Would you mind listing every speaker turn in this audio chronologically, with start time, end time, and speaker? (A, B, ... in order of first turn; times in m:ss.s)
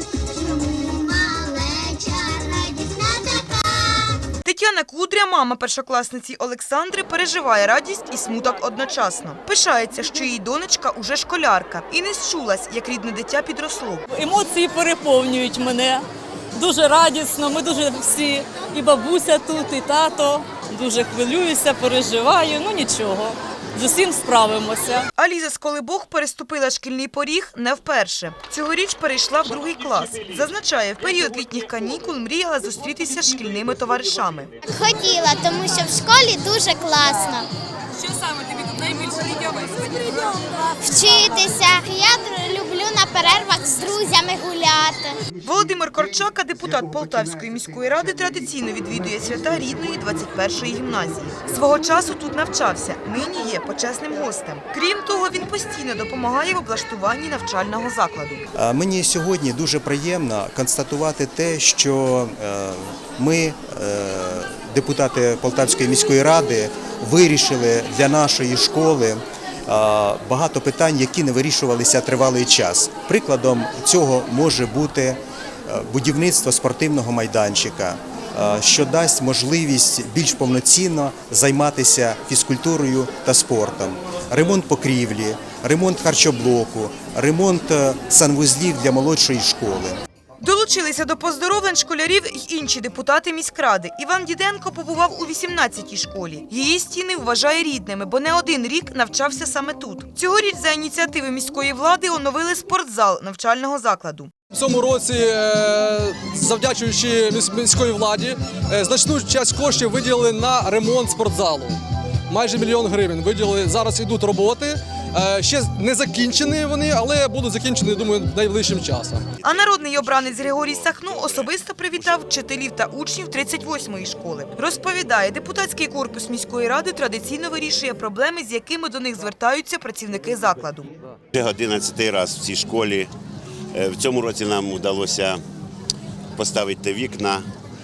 0:00.3-0:04.2 A
0:04.4-0:14.0 B
0:14.1-0:25.1 C
0:25.2-0:34.5 B
0:34.6-0:37.5 A
0:38.9-0:39.6 C
0:40.8-0:45.2 A
0:45.4-0:58.4 B
0:58.5-1:30.0 D
1:30.4-1:44.3 B
1:44.5-1:59.3 E
1:59.4-2:02.2 F
1:59.4-2:10.9 B
2:11.3-2:13.1 F
2:13.7-2:15.4 F
2:16.4-2:17.4 F